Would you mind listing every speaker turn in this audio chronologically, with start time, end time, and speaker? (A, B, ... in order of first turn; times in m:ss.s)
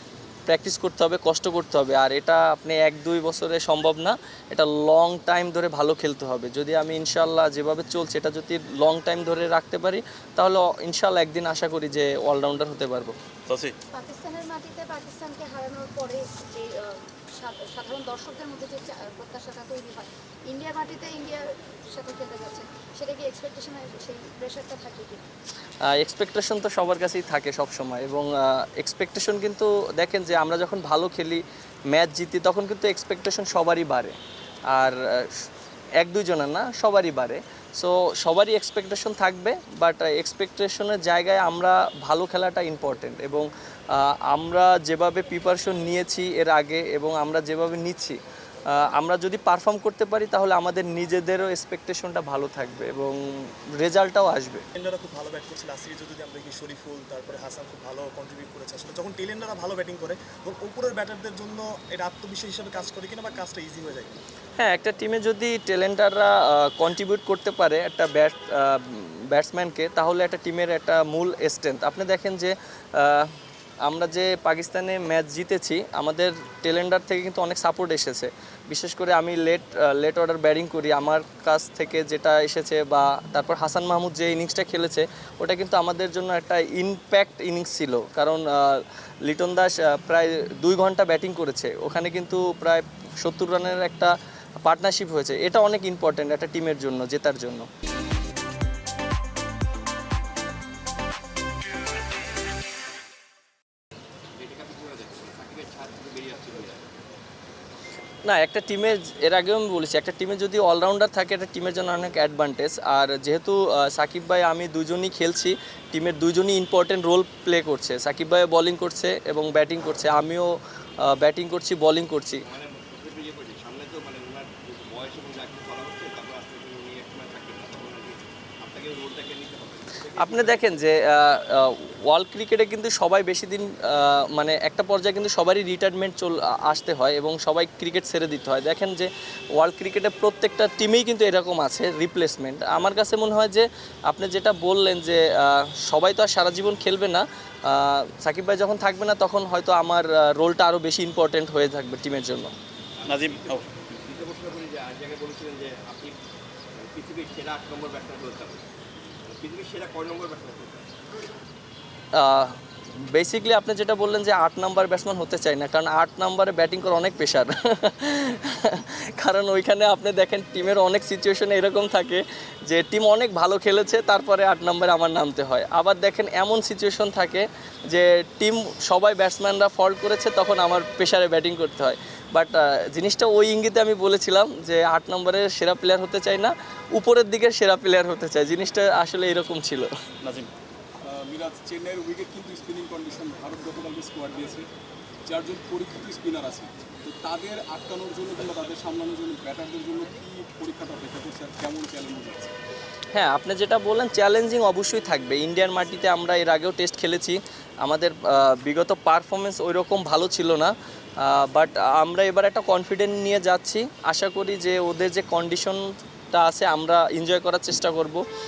0:00.5-0:13.2 A
0:13.5-0:13.7 B
0:13.9-0:25.2 C
0:25.9-0:34.1 A
0:34.7-0:35.5 A
0:36.0-0:48.2 A
0:48.8-0:53.2 A
0:53.8-0:54.6 A
0:54.7-1:04.2 B
1:04.6-1:13.3 A
1:13.8-1:37.6 A
1:44.4-1:47.0 D
1:48.2-2:00.5 A
2:01.1-2:02.4 A
2:02.4-2:10.8 D
2:10.2-2:32.5 A
2:33.0-2:36.2 D
2:33.1-2:33.6 B
2:36.8-2:38.6 D
2:39.3-2:40.8 D
2:42.2-2:42.5 A
2:43.1-3:09.9 A
3:10.2-3:10.5 B
3:11.0-3:14.7 E
3:15.2-3:22.5 E
3:23.1-3:38.2 A